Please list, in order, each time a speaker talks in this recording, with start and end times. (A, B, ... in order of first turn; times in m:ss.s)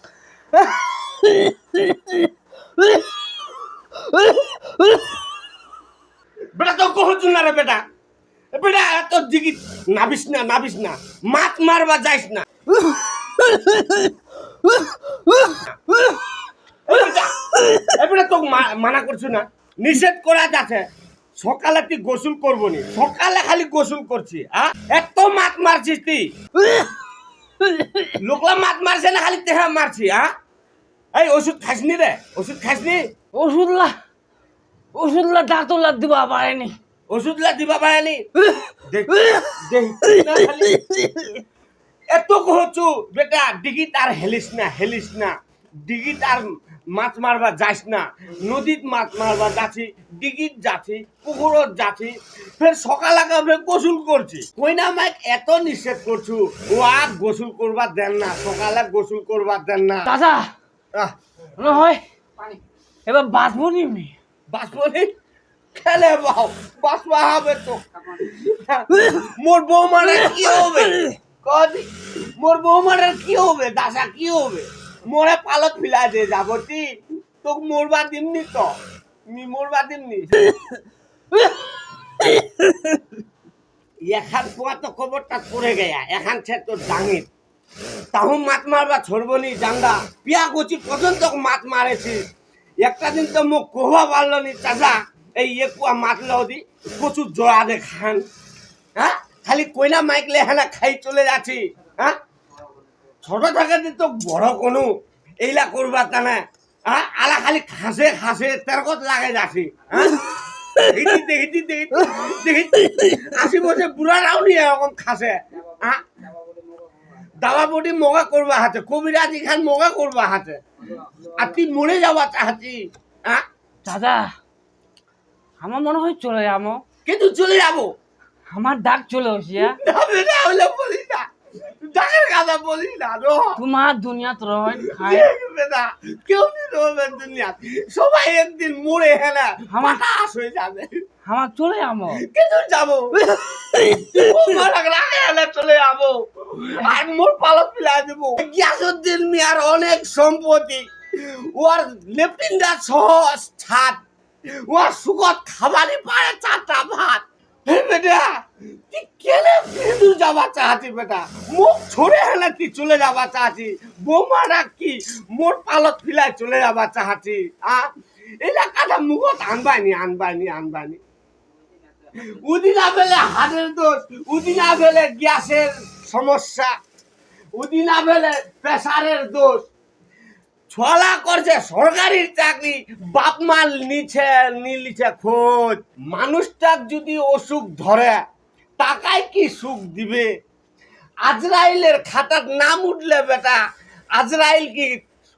0:01.2-0:02.1 A
0:04.3-0:05.0 A
0:06.5-0:07.8 B
0:08.5-0:12.5 B
0:13.4-0:14.0 A
0:16.9-0:20.8 B
0:21.4-0:26.3 B
0:26.6-0:26.9 A
0:27.6-0:28.2 A
0:28.2-0:30.3 B
0:31.1-0:33.0 B
0:33.3-0:33.9 A
0:34.9-0:36.8 A
0:37.1-0:38.2 B
0:38.4-0:38.7 A
0:38.8-0:40.8 B
0:40.2-0:41.3 A
0:42.1-1:00.1 B
1:00.0-1:00.5 A
1:01.6-1:02.0 A
1:03.0-1:04.1 A
1:04.5-1:05.1 B
1:05.7-1:16.9 B
1:17.4-1:18.7 B
1:19.3-1:20.5 B
1:24.0-1:27.3 B
1:28.1-1:32.2 B
1:32.8-1:38.2 B
1:39.0-1:42.2 B
1:43.2-1:44.9 B
1:45.4-1:56.0 B
1:57.2-2:00.6 B
2:01.2-2:03.4 B
2:03.8-2:04.3 A
2:05.6-2:06.8 A
2:07.0-2:07.9 B
2:08.5-2:09.8 A
2:09.6-2:13.6 B
2:13.6-2:15.3 A
2:14.7-2:20.9 B
2:19.7-2:20.0 A
2:21.2-2:22.2 A
2:22.1-2:34.0 B
2:23.2-2:24.1 A
2:34.6-2:51.0 B
2:52.1-2:56.7 B
2:57.6-2:59.7 B
3:00.7-3:08.2 B
3:08.8-3:10.3 B
3:11.2-3:13.6 B
3:14.1-3:15.0 B